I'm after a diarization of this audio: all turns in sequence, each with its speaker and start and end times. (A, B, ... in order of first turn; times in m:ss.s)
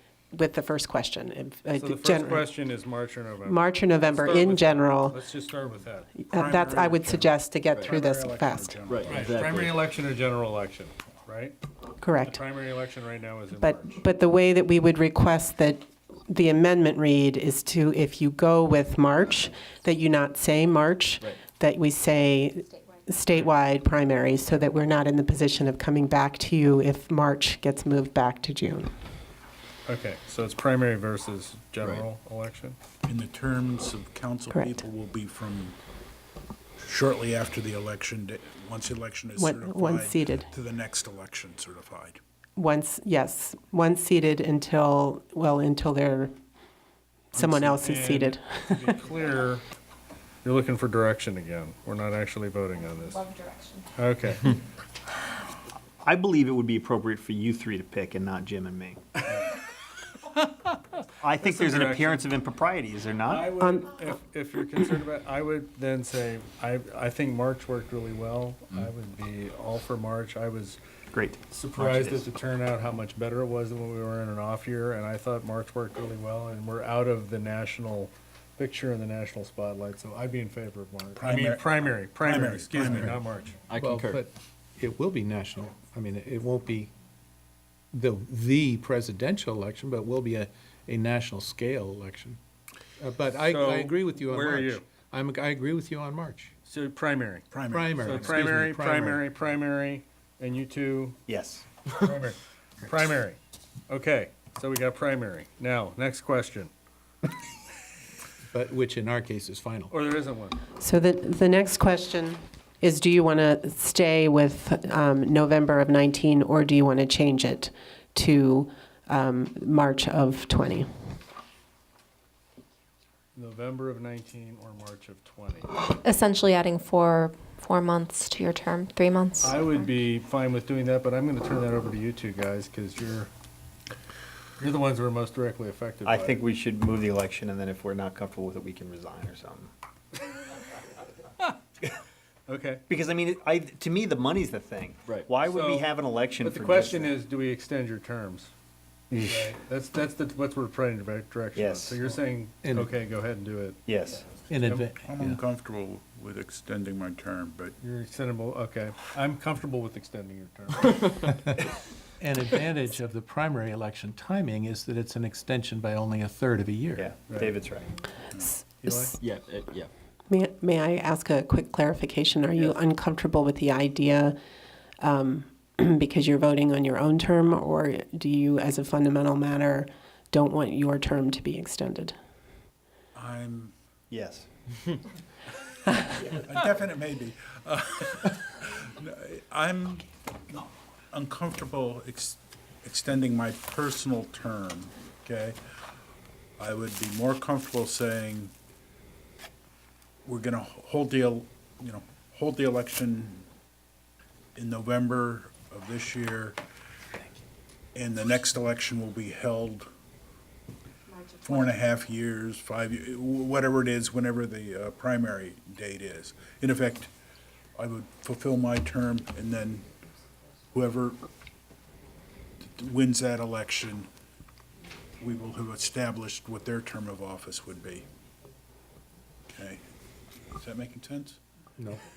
0:00.3-0:02.5 A
0:01.8-0:06.1 B
0:03.4-0:05.2 A
0:06.2-0:08.8 A
0:06.3-0:09.7 C
0:08.9-0:09.8 D
0:09.1-0:09.3 E
0:09.2-0:11.6 B
0:12.0-0:12.4 A
0:12.2-0:14.0 B
0:13.5-0:28.9 A
0:29.8-0:32.8 B
0:33.0-0:35.8 C
0:34.5-0:34.8 A
0:36.8-0:42.2 C
0:39.4-0:40.5 A
0:42.6-0:46.3 A
0:47.3-0:48.9 A
0:47.7-0:49.6 B
0:50.4-0:53.3 B
0:53.0-0:53.8 F
0:54.0-0:54.6 B
0:56.0-0:59.0 D
1:01.2-1:03.5 D
1:01.4-1:02.3 B
1:03.2-1:10.8 B
1:03.6-1:04.0 A
1:11.1-1:12.3 D
1:11.5-1:23.6 B
1:21.2-1:23.2 C
1:22.8-1:23.1 E
1:23.7-1:24.2 D
1:23.8-1:26.9 E
1:27.9-1:32.4 E
1:33.0-1:36.5 E
1:33.4-1:34.8 B
1:36.6-1:41.2 B
1:37.5-1:38.4 C
1:37.7-1:39.2 E
1:41.3-1:41.6 D
1:41.9-1:46.7 B
1:48.5-1:49.9 E
1:49.9-1:50.6 B
1:50.8-2:00.9 A
2:03.3-2:05.7 B
2:06.0-2:09.8 F
2:09.4-2:13.3 B
2:14.6-2:16.4 B
2:16.0-2:19.7 D
2:22.5-2:22.8 B
2:22.9-2:27.2 D
2:25.4-2:25.9 B
2:26.4-2:28.5 B
2:29.1-2:29.5 D
2:29.2-2:33.9 B
2:31.6-2:32.0 D
2:32.6-2:32.9 E
2:33.9-2:34.3 D
2:34.5-2:35.4 E
2:35.0-2:37.7 C
2:37.8-2:41.4 B
2:41.2-2:41.6 E
2:42.2-2:47.1 E
2:47.0-2:47.9 D
2:47.3-2:47.6 B
2:48.3-2:48.6 C
2:48.8-2:49.2 B
2:48.8-2:49.1 A
2:49.2-2:49.9 D
2:50.3-2:54.4 A
2:55.0-3:02.1 A
3:03.1-3:03.7 C
3:04.1-3:04.5 D
3:06.2-3:15.6 C
3:16.6-3:18.5 C
3:20.2-3:23.4 C
3:24.6-3:26.6 C
3:27.9-3:29.9 C
3:31.4-3:37.1 C
3:37.8-3:39.8 C
3:40.7-3:41.2 C
3:42.7-3:44.1 C
3:45.2-3:48.0 C
3:49.5-3:49.8 C
3:50.5-3:51.4 C
3:51.8-3:52.0 E